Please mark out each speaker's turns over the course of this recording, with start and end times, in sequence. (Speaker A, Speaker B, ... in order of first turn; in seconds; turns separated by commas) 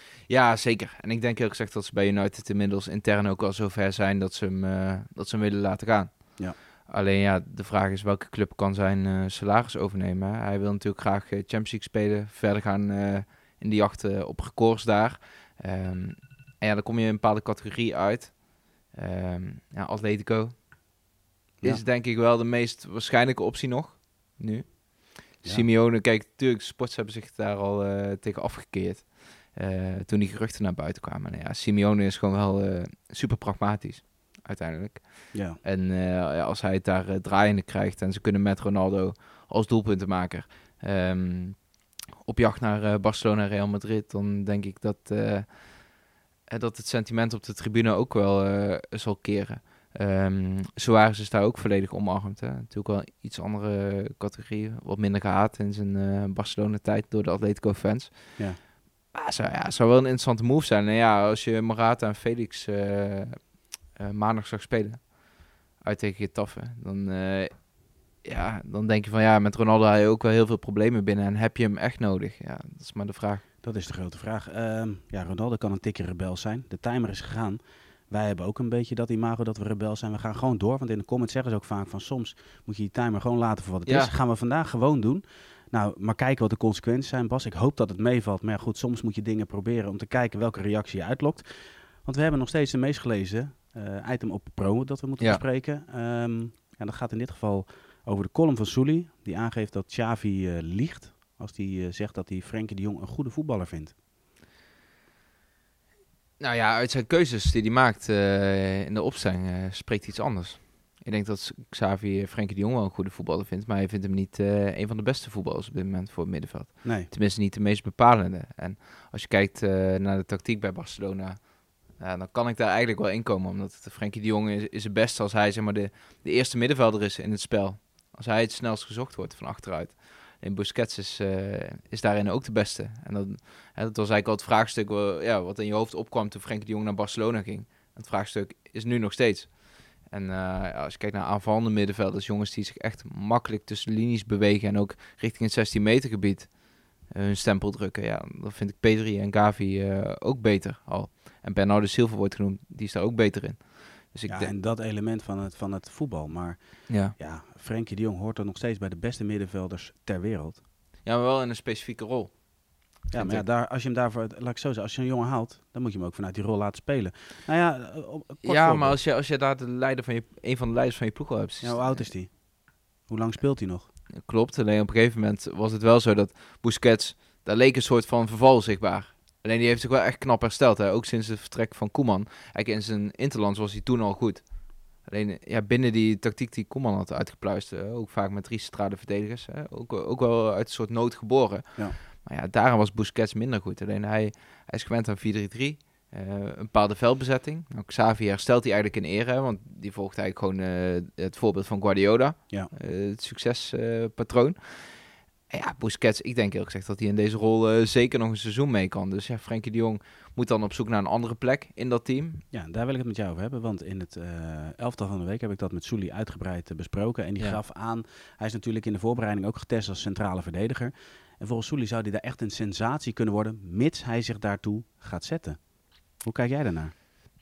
Speaker A: 0.2-73.5, Speaker B: 35.3-35.6, Speaker B: 73.6-104.0, Speaker A: 83.9-84.1, Speaker A: 106.4-154.5, Speaker B: 116.8-117.1, Speaker B: 154.3-160.6, Speaker A: 156.9-157.1, Speaker A: 161.0-163.5, Speaker B: 163.1-169.0, Speaker A: 168.4-172.2, Speaker B: 171.6-173.9, Speaker A: 174.1-212.4, Speaker B: 212.5-226.9